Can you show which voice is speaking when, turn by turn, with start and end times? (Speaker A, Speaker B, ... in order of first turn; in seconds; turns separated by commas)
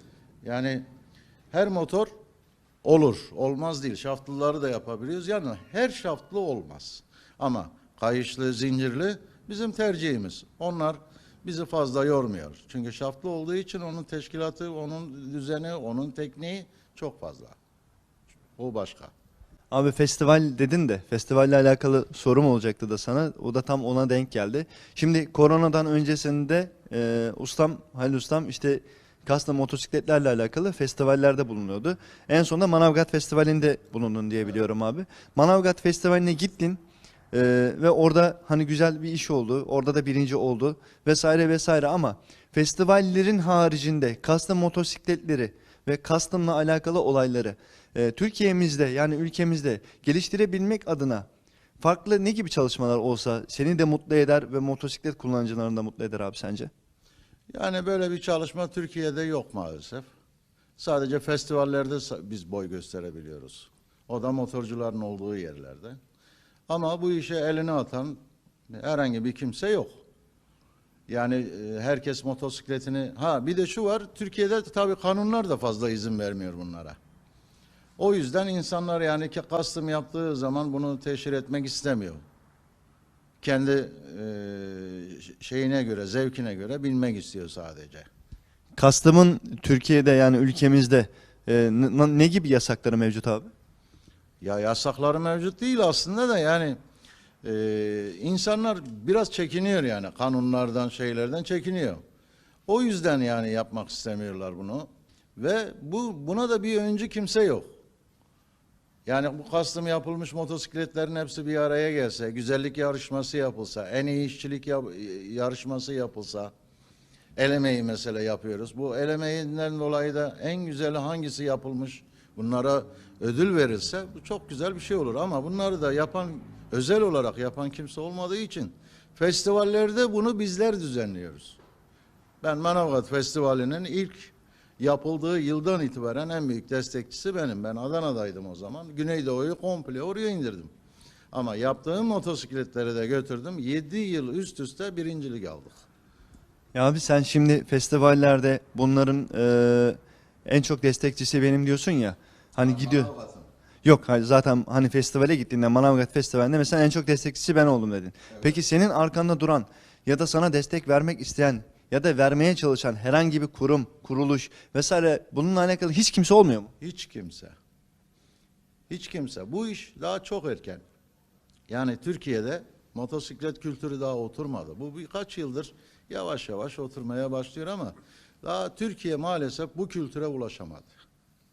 Speaker A: 0.4-0.8, Speaker A: 1.5-2.1, Speaker A: 2.8-17.6, Speaker A: 18.6-19.1, Speaker B: 19.7-36.8, Speaker B: 37.3-51.3, Speaker B: 51.8-56.7, Speaker A: 57.5-60.1, Speaker A: 60.8-66.0, Speaker A: 66.7-68.2, Speaker A: 68.7-70.0, Speaker A: 71.1-77.0, Speaker A: 78.0-82.2, Speaker A: 83.4-88.1, Speaker B: 88.8-93.5, Speaker A: 94.4-96.8, Speaker A: 97.4-102.0, Speaker A: 102.7-107.7, Speaker A: 109.1-116.5, Speaker A: 117.4-131.6, Speaker A: 132.4-140.7, Speaker A: 141.3-145.8, Speaker B: 146.7-153.1, Speaker A: 152.7-153.5, Speaker B: 153.8-166.7, Speaker A: 166.8-167.6, Speaker A: 168.9-170.8, Speaker A: 171.7-181.0